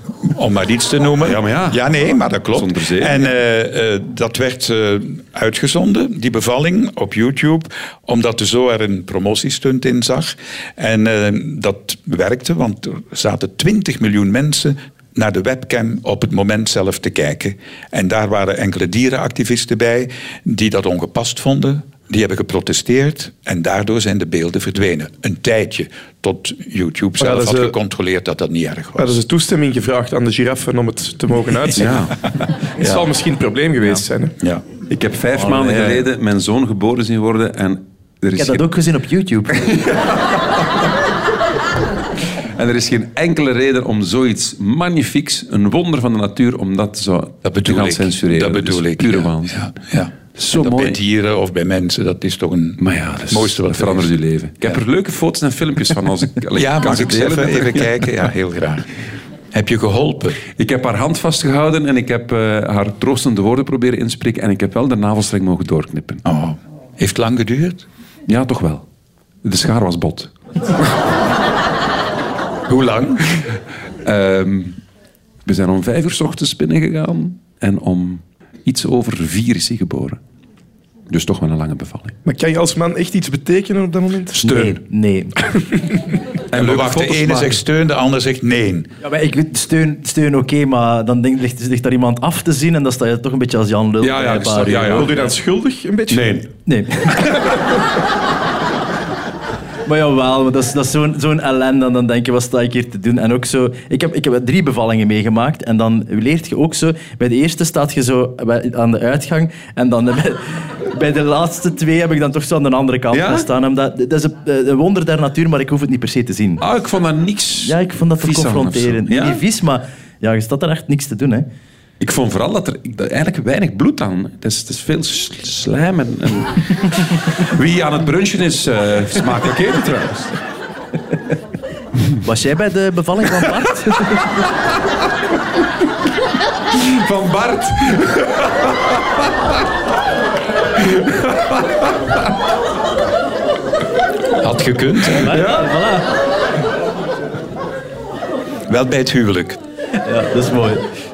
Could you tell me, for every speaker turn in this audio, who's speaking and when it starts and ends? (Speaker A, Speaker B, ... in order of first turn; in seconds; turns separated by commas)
Speaker A: 0.2-29.2, Speaker B: 1.2-1.8, Speaker B: 2.5-3.3, Speaker C: 27.2-27.7, Speaker C: 29.0-32.1, Speaker B: 31.8-32.1, Speaker C: 32.8-34.3, Speaker A: 32.8-33.1, Speaker B: 34.9-38.6, Speaker D: 35.4-36.1, Speaker D: 38.4-39.7, Speaker B: 39.5-40.3, Speaker B: 42.6-49.8, Speaker A: 47.4-54.1, Speaker B: 50.3-51.0, Speaker B: 52.8-58.1, Speaker A: 56.5-58.9, Speaker A: 59.5-60.4, Speaker B: 60.5-66.2, Speaker A: 66.2-67.8, Speaker B: 68.3-68.8, Speaker B: 69.4-70.3, Speaker A: 72.7-73.2, Speaker B: 74.0-74.8, Speaker B: 75.5-80.2, Speaker B: 81.1-82.2, Speaker C: 82.2-84.4, Speaker B: 84.3-84.8, Speaker D: 84.4-85.3, Speaker B: 86.5-87.6, Speaker A: 86.5-88.9, Speaker D: 89.0-95.1, Speaker B: 94.0-95.3, Speaker C: 94.9-96.4, Speaker B: 96.1-96.5, Speaker D: 96.7-97.3, Speaker D: 99.8-116.6, Speaker B: 113.1-113.5, Speaker B: 116.6-119.4, Speaker D: 117.6-121.5, Speaker B: 122.0-130.4, Speaker D: 132.2-134.3, Speaker B: 136.7-139.3, Speaker B: 140.8-141.9, Speaker A: 144.4-145.3, Speaker D: 145.2-146.1, Speaker B: 145.3-145.7, Speaker A: 148.7-149.6, Speaker D: 150.0-150.8